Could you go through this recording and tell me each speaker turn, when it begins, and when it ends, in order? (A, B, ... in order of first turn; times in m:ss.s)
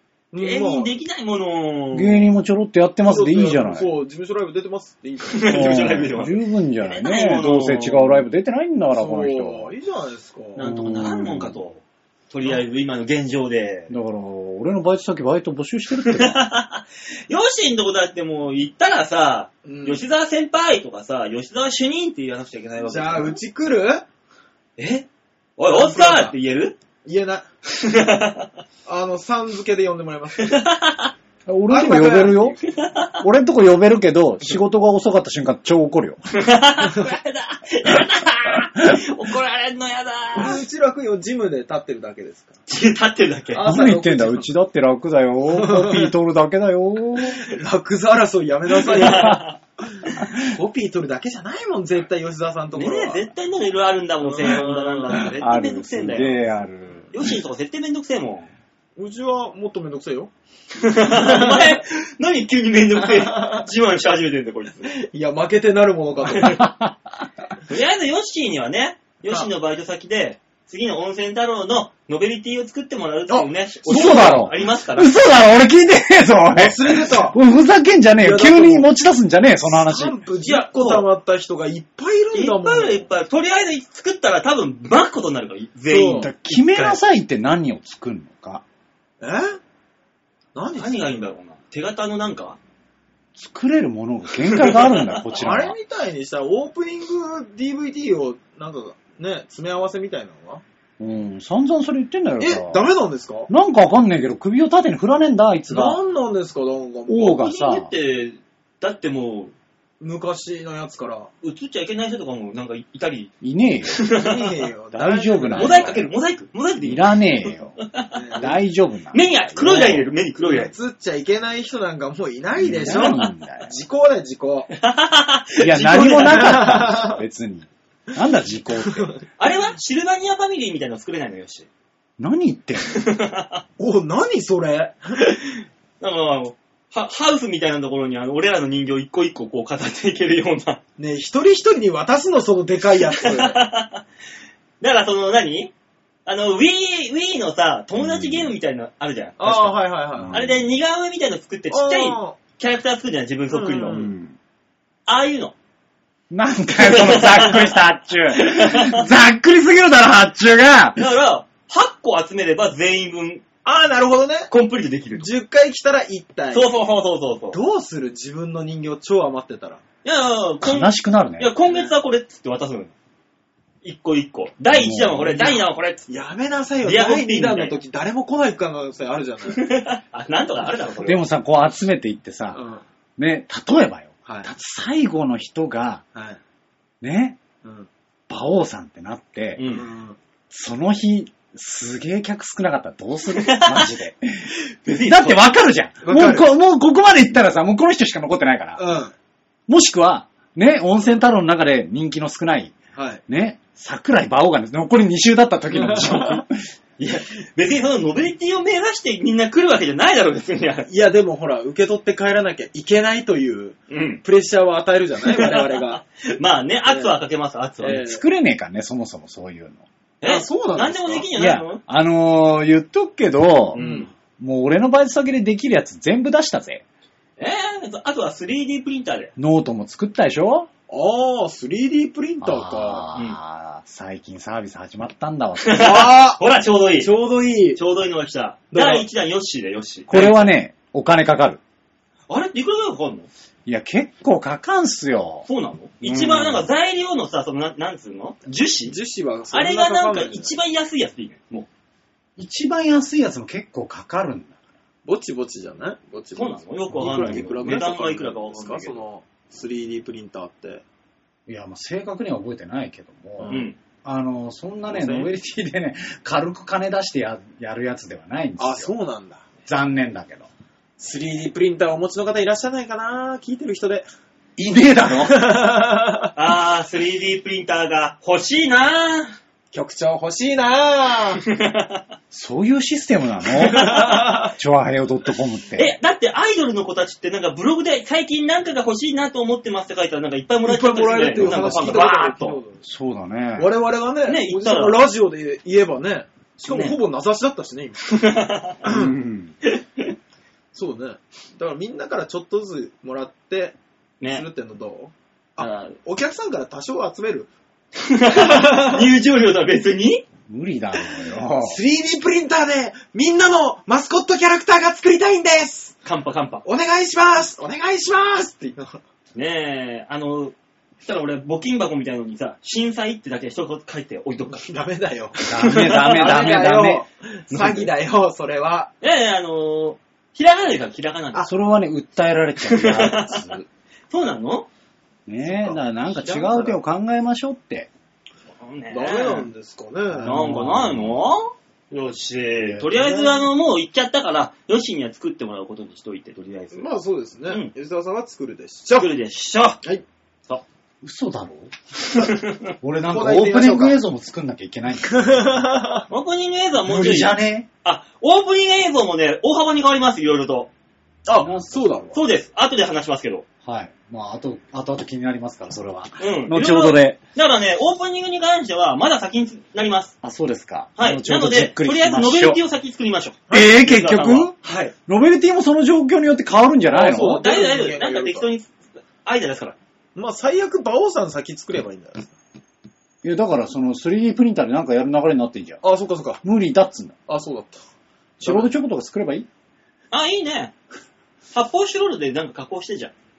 0:00.3-0:00.9 A
0:00.4-0:02.3 B
0:01.9-0:03.9 C
0:03.0-0:06.2 A
0:05.3-0:08.2 B
0:05.5-0:09.7 C
0:08.9-0:10.7 A
0:10.6-0:13.9 B
0:10.6-0:11.6 C
0:13.9-0:16.4 C
0:16.0-0:23.4 B
0:19.6-0:20.0 A
0:22.8-0:24.0 A
0:24.8-0:26.8 B
0:25.7-0:26.4 A
0:27.0-0:27.5 A
0:27.7-0:28.5 B
0:28.9-0:30.6 A
0:30.4-0:31.1 B
0:31.5-0:32.6 C
0:31.7-0:32.6 A
0:32.6-0:33.2 B
0:33.2-0:36.2 C
0:36.3-0:40.6 B
0:40.4-0:42.6 A
0:42.7-0:43.6 B
0:43.5-0:44.5 A
0:43.6-0:47.5 C
0:45.5-0:46.1 A
0:47.4-0:49.4 A
0:48.8-0:49.6 B
0:49.0-0:49.4 C
0:50.0-0:53.3 A
0:52.8-0:56.4 B
0:54.2-0:55.3 A
0:55.4-0:57.3 C
0:57.1-0:58.5 B
0:59.0-1:00.3 A
1:00.8-1:04.9 B
1:01.1-1:01.8 A
1:03.0-1:03.7 A
1:04.9-1:06.6 A
1:06.3-1:06.6 B
1:06.4-1:06.9 C
1:07.7-1:15.1 B
1:13.3-1:14.5 A
1:13.9-1:20.2 C
1:16.5-1:17.4 A
1:18.2-1:18.9 A
1:19.6-1:23.1 A
1:20.4-1:21.1 B
1:22.3-1:27.0 B
1:25.9-1:26.3 A
1:26.2-1:28.6 C
1:29.2-1:29.6 A
1:30.6-1:31.2 A
1:30.8-1:32.6 B
1:33.4-1:35.8 C
1:34.5-1:35.2 B
1:35.4-1:40.6 A
1:41.0-1:42.8 C
1:42.4-1:43.5 A
1:43.5-1:46.0 C
1:45.7-1:47.4 A
1:47.1-1:47.9 C
1:47.2-1:49.5 B
1:50.0-1:51.3 A
1:51.4-1:53.3 B
1:53.4-1:54.0 C
1:53.9-1:54.5 B
1:54.1-1:56.1 A
1:54.9-1:56.0 C
1:55.6-1:58.2 B
1:56.8-1:57.8 C
1:58.1-1:58.6 A
1:58.4-2:00.1 C
1:59.1-2:00.7 B
2:00.4-2:04.7 A
2:02.6-2:03.7 C
2:02.9-2:03.3 B
2:04.7-2:06.8 B
2:05.6-2:09.1 C
2:05.9-2:07.2 A
2:08.8-2:09.2 A
2:09.4-2:11.7 B
2:12.2-2:13.0 C
2:12.9-2:13.6 B
2:13.8-2:15.1 A
2:15.2-2:20.8 B
2:21.0-2:23.6 A
2:23.1-2:24.0 B
2:24.8-2:25.7 B
2:26.3-2:29.8 B
2:28.0-2:28.5 C
2:29.4-2:30.5 A
2:30.2-2:30.6 C
2:30.3-2:34.1 B
2:31.7-2:32.4 A
2:33.5-2:34.1 A
2:33.9-2:34.4 C
2:35.1-2:35.6 B
2:36.3-2:41.0 C
2:36.8-2:37.8 B
2:38.3-2:39.1 B
2:41.0-2:43.4 B
2:43.6-2:44.5 A
2:44.5-2:45.3 B
2:45.2-2:46.7 A
2:46.5-2:47.6 B
2:47.5-2:49.8 A
2:50.0-2:52.9 B
2:50.6-2:51.5 C
2:51.6-2:51.9 A
2:53.8-2:56.1 B
2:54.7-2:55.4 C
2:55.3-2:59.6 A
2:56.8-2:57.8 B
2:59.5-3:01.2 B
3:01.0-3:02.6 C
3:02.5-3:02.8 A
3:03.2-3:06.0 C
3:07.0-3:07.4 C
3:08.3-3:09.6 C
3:09.6-3:09.9 B
3:09.7-3:10.2 A
3:10.5-3:18.8 C
3:13.3-3:13.9 B
3:14.8-3:15.4 B
3:16.0-3:16.5 A
3:18.8-3:19.1 A
3:19.7-3:22.8 C
3:23.0-3:23.2 A
3:23.3-3:26.6 C
3:25.7-3:26.4 A
3:27.0-3:30.9 B
3:30.9-3:36.0 A
3:33.9-3:34.2 B
3:35.3-3:38.0 B
3:36.9-3:37.2 A
3:37.8-3:38.2 A
3:37.9-3:39.8 C
3:40.2-3:41.8 B
3:40.2-3:41.3 A
3:41.3-3:43.8 C
3:43.7-3:44.1 B
3:43.8-3:44.1 A
3:44.4-3:46.8 C
3:47.4-3:49.3 B
3:49.4-3:50.7 C
3:50.9-3:53.1 A
3:52.4-3:55.9 C
3:55.6-3:57.1 B
3:55.7-3:56.4 A
3:57.0-3:57.8 A
3:57.8-4:00.5 B
3:58.7-3:59.1 A
4:00.1-4:01.6 C
4:02.3-4:03.3 B
4:03.7-4:05.5 C
4:05.5-4:09.0 B
4:06.0-4:06.7 C
4:08.9-4:10.6 A
4:09.5-4:11.7 B
4:12.4-4:14.6 C
4:15.1-4:20.8 A
4:16.4-4:19.0 B
4:17.1-4:17.5 C
4:21.5-4:28.9 C
4:23.4-4:23.7 A
4:23.5-4:23.8 B
4:24.9-4:25.3 A
4:28.6-4:29.5 A
4:29.7-4:30.5 C
4:31.0-4:34.1 A
4:34.6-4:35.6 C
4:35.2-4:36.3 A
4:36.4-4:39.4 B
4:39.7-4:41.4 A
4:41.5-4:42.0 B
4:42.3-4:45.9 C
4:43.6-4:44.5 A
4:43.7-4:44.4 B
4:45.8-4:52.6 B
4:50.6-4:52.8 A
4:51.4-4:52.0 C
4:52.8-4:53.7 C
4:53.6-4:58.2 A
4:54.3-4:55.0 B
4:56.6-4:57.0 B
4:58.1-4:58.9 B
4:58.8-4:59.2 A
4:58.9-4:59.5 C
4:59.6-5:00.1 B
5:00.7-5:03.8 A
5:04.3-5:07.5 A
5:05.6-5:06.0 B
5:08.0-5:10.2 B
5:08.3-5:09.1 A
5:10.5-5:11.8 C
5:11.6-5:16.0 A
5:16.0-5:16.6 B
5:16.6-5:19.0 A
5:19.4-5:24.8 B
5:24.5-5:28.9 A
5:25.4-5:26.4 B
5:25.4-5:27.0 C
5:27.5-5:27.9 B
5:29.0-5:31.5 B
5:31.4-5:33.6 C
5:32.7-5:33.4 B
5:34.1-5:34.7 B
5:35.3-5:37.9 C
5:35.4-5:36.8 A
5:38.6-5:39.5 B
5:38.9-5:40.5 A
5:40.1-5:41.2 C
5:40.2-5:46.9 B
5:42.6-5:42.9 C
5:42.9-5:43.5 A
5:46.7-5:49.1 A
5:49.0-5:49.8 B
5:51.0-5:51.7 C
5:52.0-5:52.7 B
5:52.8-5:55.6 C
5:53.1-5:54.0 A
5:55.1-5:56.1 A
5:56.1-6:00.7 B
5:56.9-5:57.7 C
6:01.3-6:02.2 A
6:01.4-6:02.1 C
6:02.1-6:03.5 B
6:03.6-6:07.2 C
6:06.2-6:10.1 B
6:10.2-6:12.6 C
6:11.0-6:14.9 B
6:13.5-6:13.8 A
6:13.5-6:14.5 C
6:15.1-6:17.5 C
6:16.9-6:18.5 A
6:17.4-6:19.8 B
6:20.2-6:22.3 A
6:23.2-6:25.8 C
6:25.8-6:26.4 A
6:26.4-6:27.2 C
6:27.3-6:27.8 A
6:28.4-6:29.5 C
6:28.4-6:28.7 A
6:30.1-6:30.8 B
6:31.5-6:33.1 B